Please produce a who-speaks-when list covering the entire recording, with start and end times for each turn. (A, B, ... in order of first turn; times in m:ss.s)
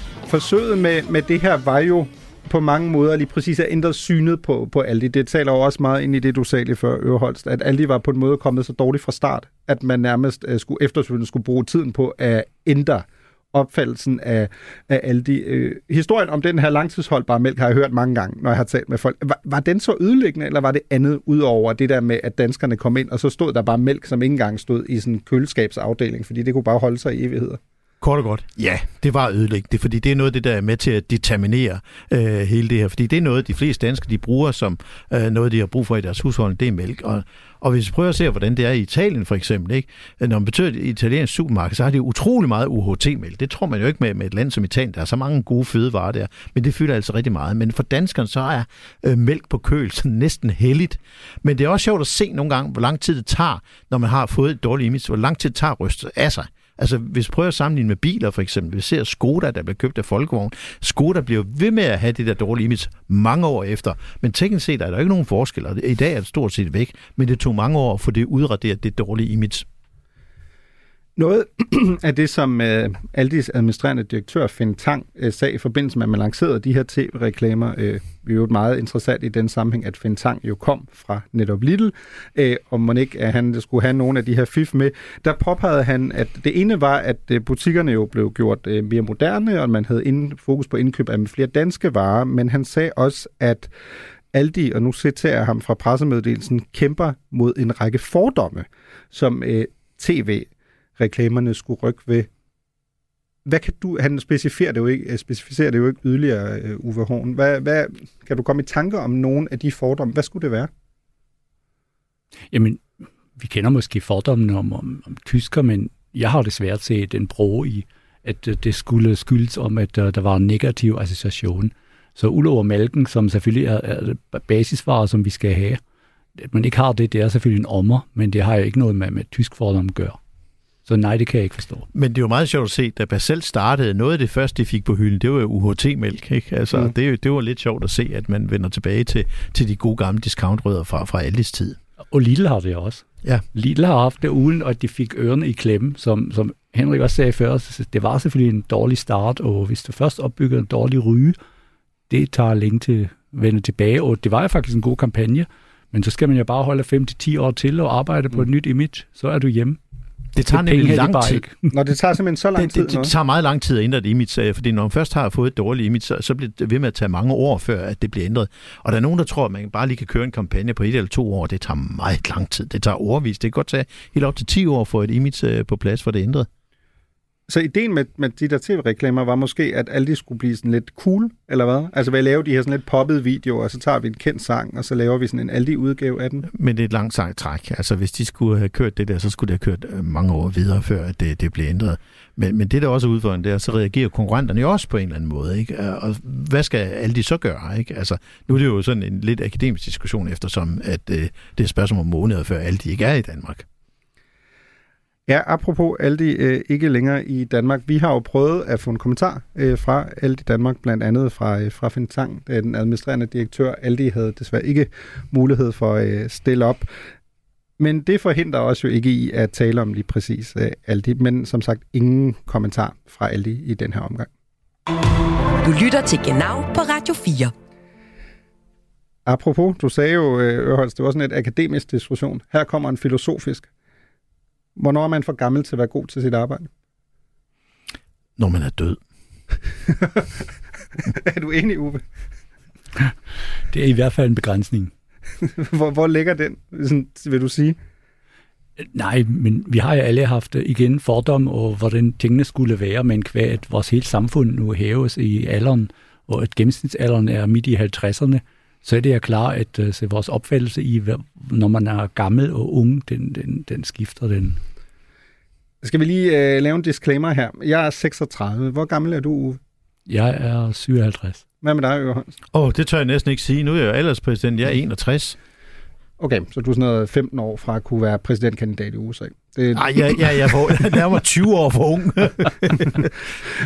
0:00.3-0:27.6 A
0:28.0-1:09.6 B
1:11.2-1:33.7 A
1:34.3-1:42.3 A
1:43.4-1:50.7 A
1:52.5-1:52.8 C
1:53.4-2:05.8 C
2:06.4-2:10.2 C
2:10.8-2:11.9 C
2:11.9-2:21.8 B
2:22.1-2:31.4 C
2:32.1-2:39.8 C
2:40.3-2:41.4 B
2:40.5-2:41.7 C
2:41.7-2:43.1 A
2:42.6-2:56.5 B
2:57.5-3:06.5 A
3:06.5-3:23.6 B
3:25.3-3:36.9 A
3:37.8-3:44.3 A
3:45.6-3:47.5 D
3:49.2-3:53.7 A
3:54.8-3:56.7 A
3:58.4-3:59.0 B
3:59.9-4:02.0 A
4:03.7-4:04.9 C
4:05.4-4:07.8 A
4:08.8-4:24.6 C
4:25.8-4:29.6 A
4:30.1-4:31.4 C
4:31.6-4:32.3 A
4:32.5-4:35.4 B
4:36.2-4:41.0 A
4:39.7-4:43.1 B